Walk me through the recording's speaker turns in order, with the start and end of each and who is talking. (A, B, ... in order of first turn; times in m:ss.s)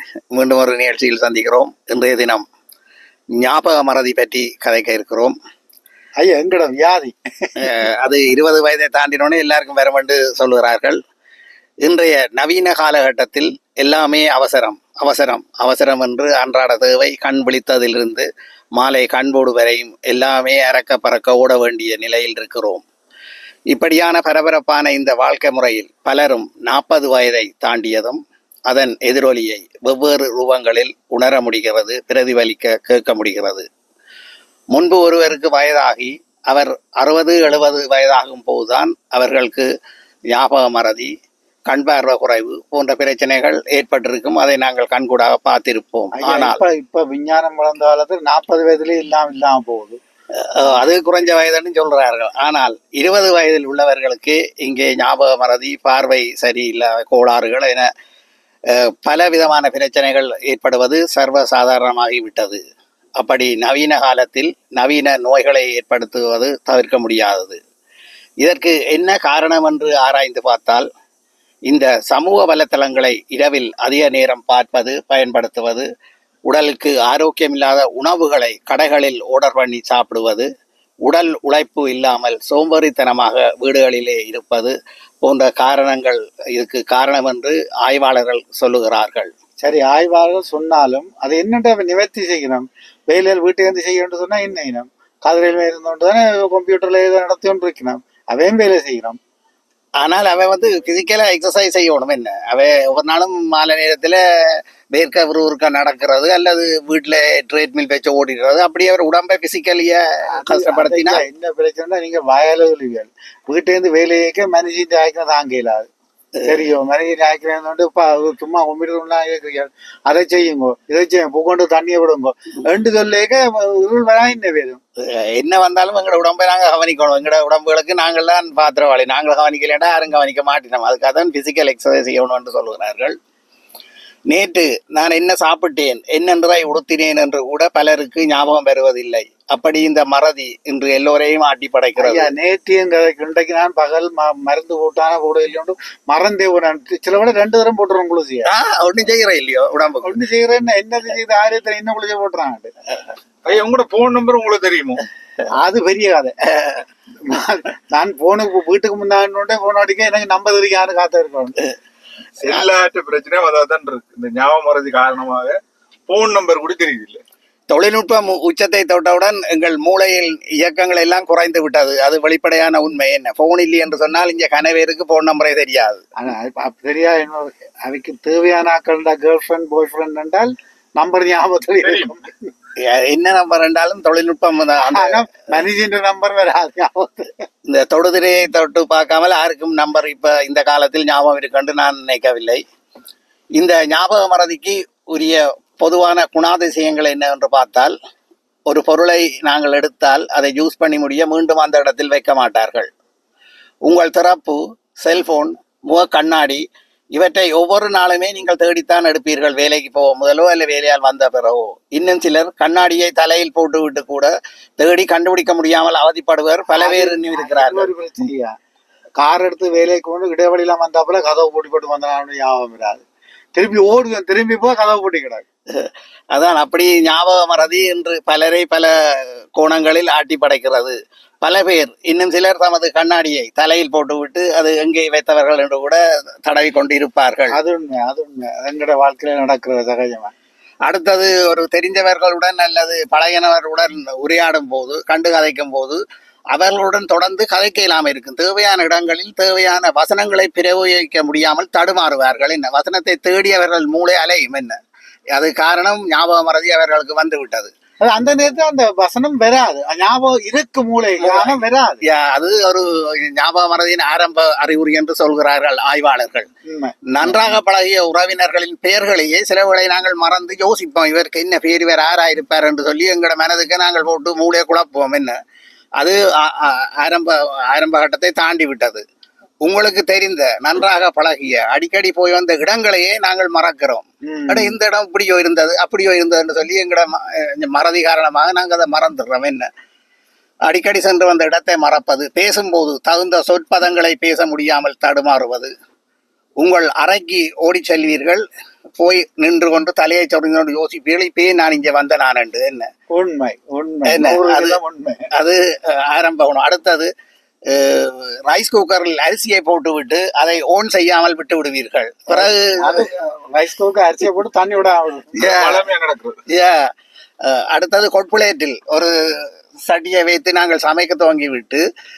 0:00.3-0:02.4 A
0:03.4-0:05.3 A
0:06.2-0:07.7 B
0:07.6-0:11.0 A
0:11.8-0:22.8 A
0:23.7-0:33.6 A
0:34.7-0:39.7 A
0:40.3-0:41.1 A
0:41.7-0:46.6 A
0:46.1-0:50.0 B
0:50.3-0:57.9 A
0:58.7-1:02.6 A
1:03.2-1:07.6 A
1:08.4-1:10.9 A
1:11.7-1:15.9 A
1:16.5-1:20.5 A
1:21.0-1:29.3 A
1:29.6-1:39.2 B
1:40.0-1:51.2 A
1:50.3-1:55.9 B
1:56.4-2:04.8 B
2:05.0-2:13.2 A
2:14.3-2:22.3 A
2:22.0-2:28.5 B
2:28.4-2:30.2 A
2:30.0-2:32.7 B
2:33.4-2:35.0 C
2:35.6-2:36.3 B
2:37.2-2:41.6 B
2:42.4-2:47.2 C
2:47.7-2:56.0 A
2:56.2-3:02.4 B
3:02.8-3:05.3 A
3:04.8-3:07.4 B
3:07.7-3:12.6 A
3:13.6-3:17.9 A
3:18.7-3:22.9 A
3:23.8-3:26.6 A
3:27.1-3:37.9 A
3:36.7-3:38.5 B
3:39.2-3:43.0 B
3:43.5-3:45.4 B
3:45.7-3:57.6 A
3:57.5-4:00.3 B
4:00.8-4:06.0 A
4:06.5-4:14.8 A
4:15.3-4:17.7 A
4:18.0-4:22.0 B
4:21.2-4:26.5 A
4:26.6-4:27.6 B
4:27.1-4:35.4 A
4:36.0-4:39.0 A
4:39.6-4:49.7 A
4:44.3-4:44.8 B
4:50.7-4:55.7 A
4:56.6-4:58.4 A
4:59.0-5:02.9 A
5:03.1-5:05.2 B
5:04.0-5:04.8 A
5:05.3-5:07.1 A
5:07.7-5:13.1 A
5:12.3-5:15.4 B
5:15.4-5:15.8 A
5:15.4-5:16.4 C
5:16.5-5:16.9 A
5:17.4-5:21.8 A